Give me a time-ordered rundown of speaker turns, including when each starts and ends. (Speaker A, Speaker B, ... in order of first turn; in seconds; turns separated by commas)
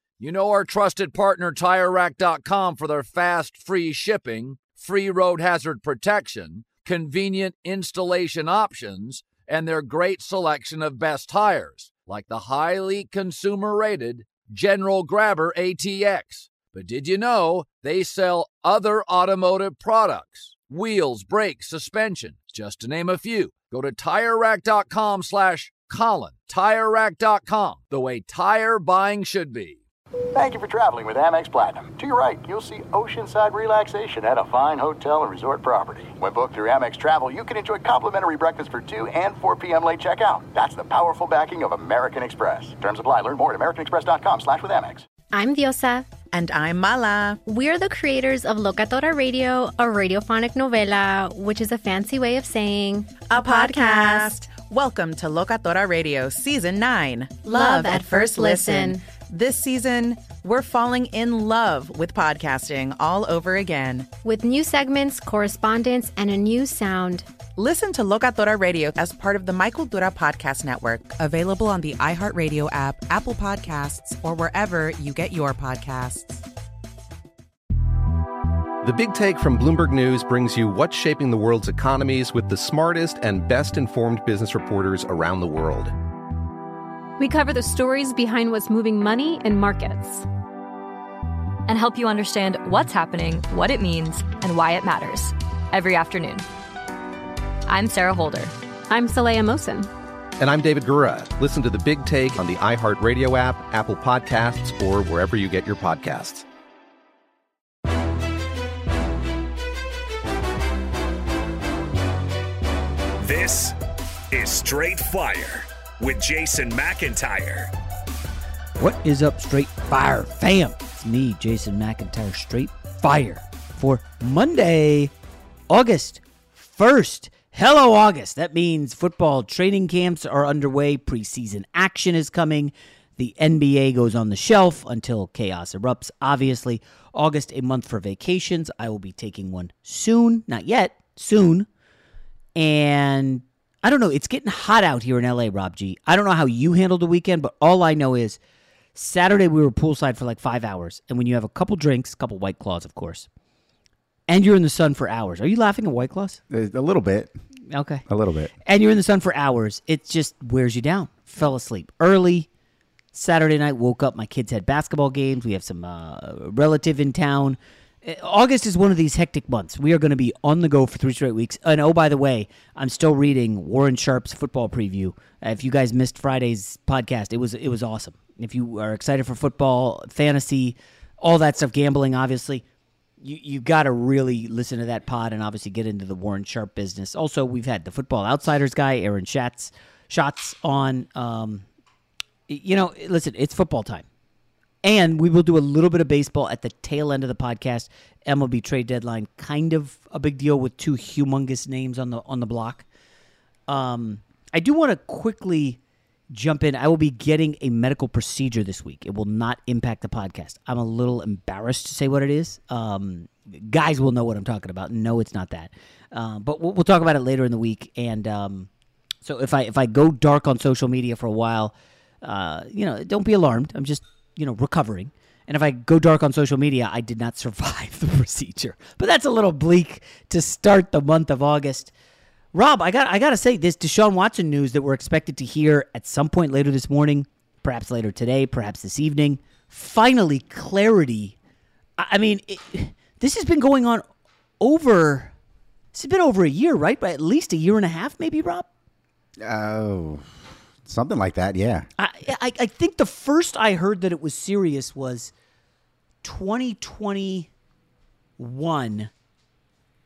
Speaker A: 0.2-29.8, Speaker B: 30.3-45.0, Speaker C: 45.3-46.1, Speaker D: 46.3-47.4, Speaker C: 47.5-54.3, Speaker D: 53.3-64.1, Speaker C: 57.4-59.0, Speaker C: 64.2-67.3, Speaker D: 67.5-76.5, Speaker E: 78.8-85.9, Speaker F: 87.2-90.3, Speaker G: 91.7-96.5, Speaker G: 97.7-98.5, Speaker F: 98.9-99.9, Speaker E: 100.4-106.4, Speaker H: 113.2-113.8, Speaker H: 114.3-117.7, Speaker I: 118.8-125.1, Speaker I: 125.7-141.7, Speaker I: 142.6-148.4, Speaker I: 148.9-153.3, Speaker I: 154.3-156.4, Speaker J: 156.5-157.3, Speaker I: 157.7-158.0, Speaker J: 158.1-158.5, Speaker I: 158.7-162.5, Speaker I: 163.1-182.6, Speaker I: 183.2-191.7, Speaker I: 192.5-194.1, Speaker I: 194.8-202.9, Speaker I: 203.7-205.8, Speaker I: 206.3-218.7, Speaker I: 219.2-231.9, Speaker I: 232.5-241.4, Speaker I: 242.0-244.0, Speaker I: 244.6-245.3, Speaker I: 245.9-248.7, Speaker J: 249.4-251.9, Speaker I: 252.0-255.3, Speaker I: 256.2-257.5, Speaker I: 258.4-259.1